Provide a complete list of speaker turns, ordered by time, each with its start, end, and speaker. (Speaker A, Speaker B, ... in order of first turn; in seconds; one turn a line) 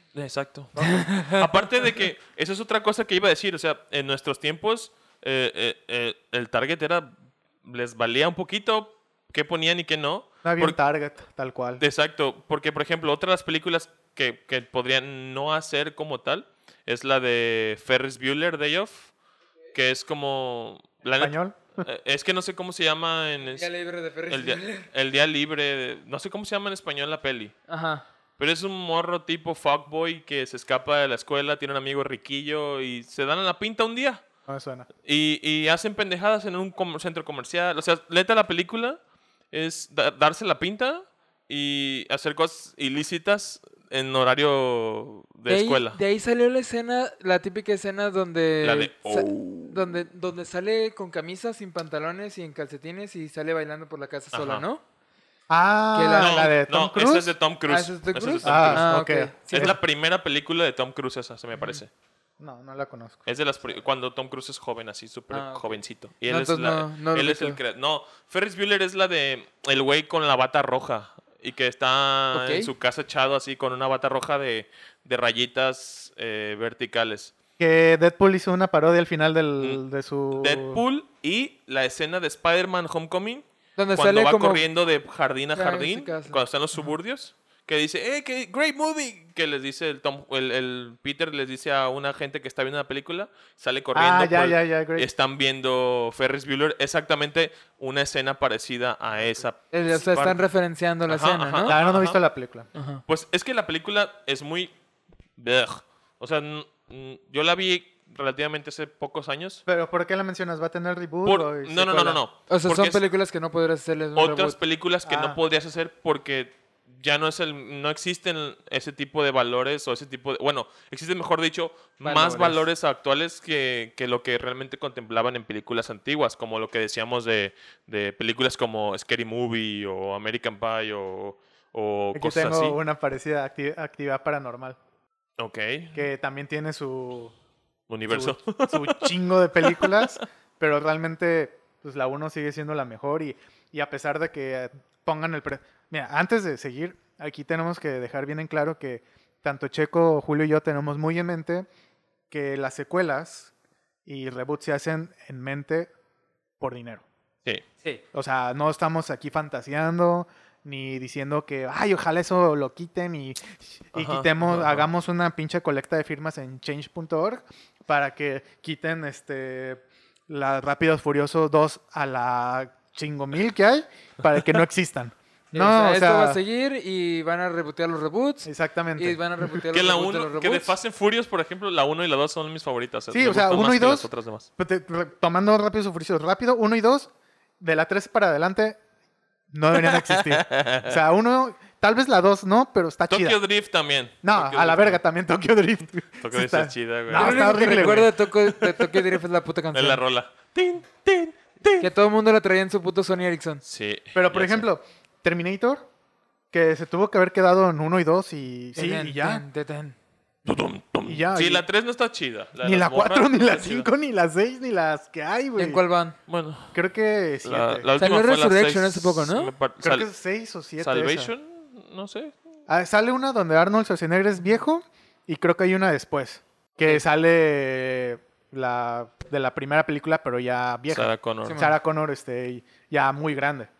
Speaker A: 0.1-7.1
Speaker B: 0.8-1.0
Speaker C: 0.8-1.5
Speaker A: 7.6-10.8
Speaker B: 10.4-11.8
Speaker A: 11.8-19.1
Speaker A: 19.7-23.7
Speaker B: 21.2-21.8
Speaker C: 23.5-24.9
Speaker A: 24.3-27.6
Speaker C: 27.7-28.0
Speaker A: 28.4-34.2
Speaker B: 34.5-34.9
Speaker A: 35.0-39.0
Speaker A: 39.5-46.0
Speaker C: 45.5-54.8
Speaker A: 48.6-49.9
Speaker A: 54.3-54.6
Speaker B: 55.5-57.3
Speaker C: 55.9-56.4
Speaker A: 56.2-58.9
Speaker C: 57.7-59.7
Speaker B: 58.4-59.8
Speaker A: 59.5-61.9
Speaker B: 62.4-63.2
Speaker A: 63.2-77.3
Speaker C: 65.3-67.6
Speaker C: 72.3-72.7
Speaker B: 77.6-80.8
Speaker A: 80.3-100.4
Speaker C: 83.8-84.6
Speaker C: 85.5-86.4
Speaker B: 93.9-95.1
Speaker C: 99.7-101.8
Speaker A: 101.1-102.2
Speaker B: 101.7-102.7
Speaker C: 102.7-103.0
Speaker A: 103.0-104.7
Speaker A: 105.4-109.6
Speaker B: 109.7-112.2
Speaker A: 111.2-113.0
Speaker C: 112.5-114.6
Speaker A: 114.2-132.8
Speaker B: 115.0-115.4
Speaker C: 122.0-122.6
Speaker B: 132.1-134.8
Speaker A: 135.4-136.0
Speaker B: 135.9-137.3
Speaker A: 137.9-140.2
Speaker B: 138.1-151.7
Speaker B: 152.3-153.5
Speaker B: 154.1-155.9
Speaker B: 156.6-157.0
Speaker B: 158.1-176.4
Speaker A: 163.9-164.8
Speaker C: 175.5-180.7
Speaker B: 178.4-179.2
Speaker A: 179.7-184.5
Speaker B: 183.1-188.8
Speaker B: 189.5-193.4
Speaker A: 189.7-191.0
Speaker A: 193.1-195.0
Speaker B: 194.2-198.1
Speaker A: 196.2-199.2
Speaker C: 197.1-200.0
Speaker A: 199.7-201.9
Speaker C: 201.8-203.6
Speaker A: 203.6-204.7
Speaker B: 204.1-205.9
Speaker B: 206.5-209.4
Speaker C: 208.8-209.9
Speaker A: 210.4-213.9
Speaker B: 211.0-211.7
Speaker B: 212.6-215.8
Speaker C: 215.6-216.2
Speaker A: 216.3-216.8
Speaker B: 216.7-217.9
Speaker A: 217.4-220.1
Speaker C: 218.0-219.5
Speaker B: 219.8-221.3
Speaker A: 220.8-222.3
Speaker B: 222.7-233.7
Speaker A: 230.9-231.7
Speaker C: 231.4-231.7